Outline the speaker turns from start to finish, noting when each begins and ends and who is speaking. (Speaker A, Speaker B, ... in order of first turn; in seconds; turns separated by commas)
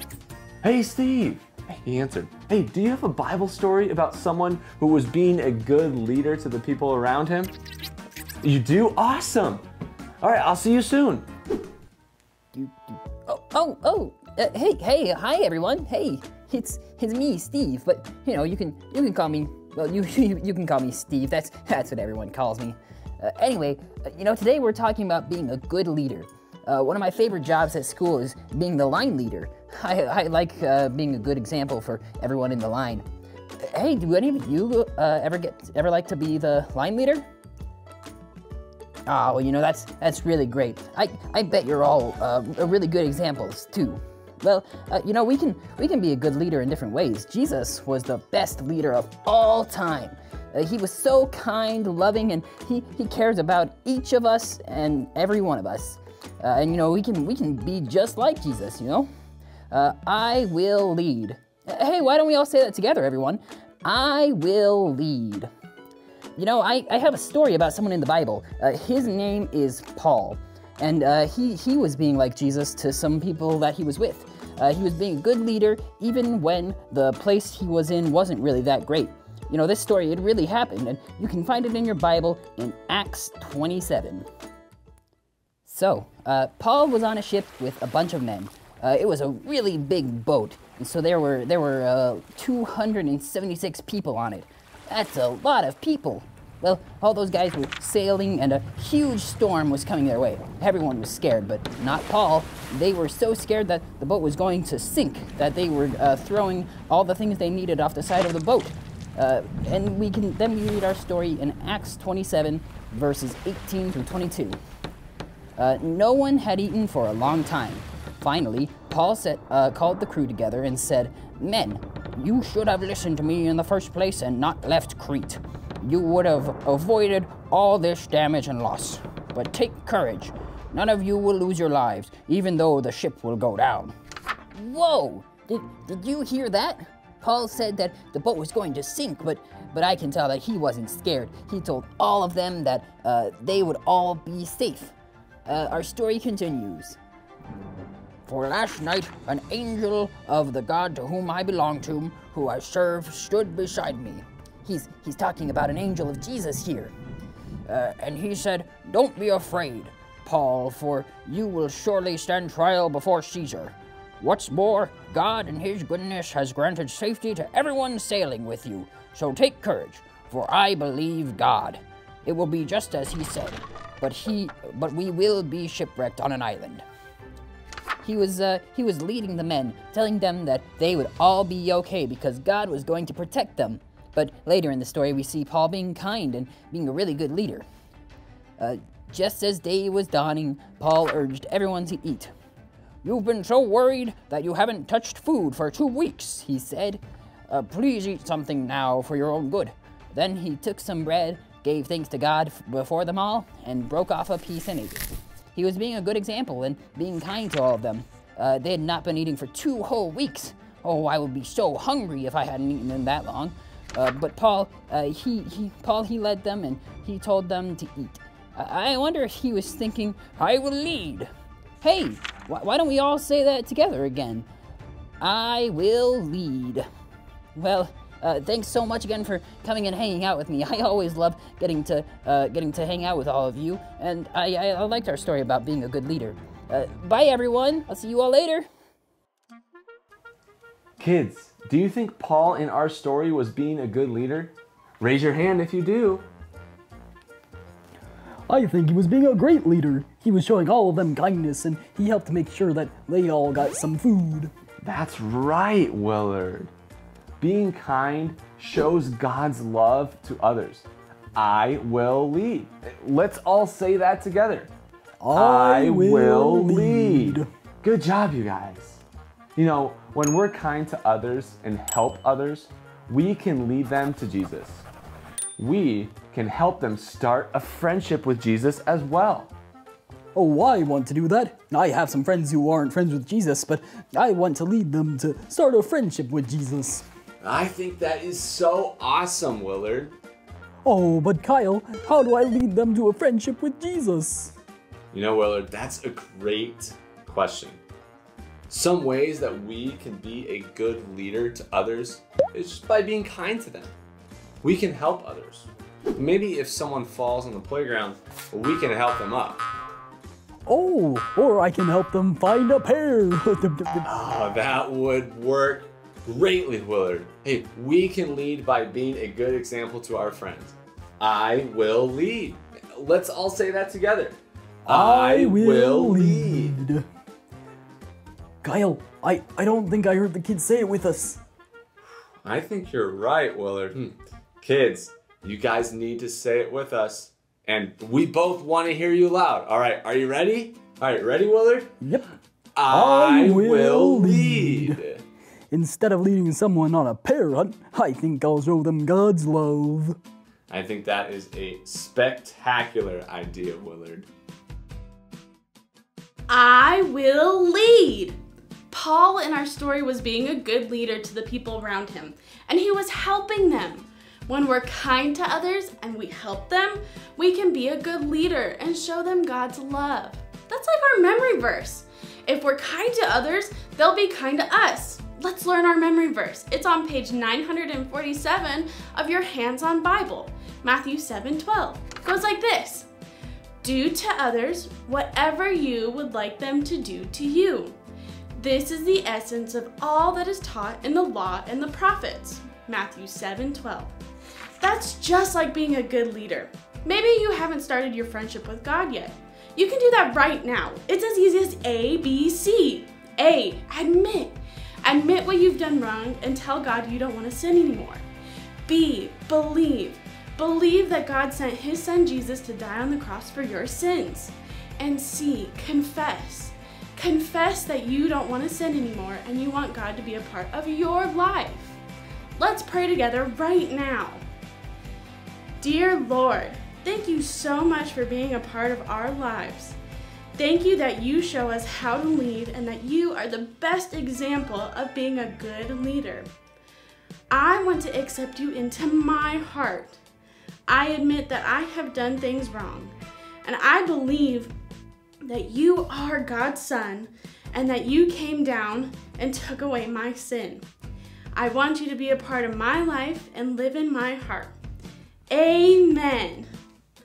Speaker A: 0.6-7.5, Speaker A: 8.4-9.6, Speaker A: 10.2-11.3, Speaker B: 13.2-33.0, Speaker B: 33.6-37.2, Speaker B: 39.0-59.1, Speaker B: 59.7-65.5, Speaker B: 66.4-84.3, Speaker B: 85.7-114.6, Speaker B: 115.6-133.9, Speaker B: 134.5-144.9, Speaker B: 145.4-147.0, Speaker B: 148.2-156.9, Speaker B: 157.7-176.8, Speaker B: 178.0-187.6, Speaker B: 188.6-192.3, Speaker B: 193.0-221.3, Speaker B: 221.8-224.5, Speaker B: 225.2-226.8, Speaker B: 227.5-238.7, Speaker A: 241.0-246.2, Speaker C: 248.5-254.5, Speaker A: 254.8-256.7, Speaker A: 257.4-264.7, Speaker C: 265.2-267.4, Speaker A: 265.3-269.0, Speaker A: 269.6-274.9, Speaker A: 275.6-279.5, Speaker C: 280.4-287.0, Speaker A: 287.4-290.1, Speaker C: 290.9-294.5, Speaker A: 295.1-297.8, Speaker A: 298.7-303.9, Speaker A: 304.6-309.6, Speaker C: 310.7-314.0, Speaker A: 314.0-326.8, Speaker C: 324.9-327.0, Speaker C: 328.6-331.4, Speaker A: 332.4-341.9, Speaker A: 342.8-345.2, Speaker C: 342.9-345.0, Speaker C: 345.7-350.1, Speaker A: 350.7-354.3, Speaker D: 356.5-358.4, Speaker D: 358.9-383.1, Speaker D: 383.8-388.0, Speaker D: 388.6-394.1, Speaker D: 394.8-408.2, Speaker D: 408.9-422.0, Speaker D: 422.6-424.4, Speaker D: 425.8-430.0, Speaker D: 430.6-436.5, Speaker D: 437.5-440.2, Speaker D: 440.9-443.1, Speaker D: 443.6-444.7, Speaker D: 445.4-450.8, Speaker D: 451.5-454.8, Speaker D: 455.5-456.7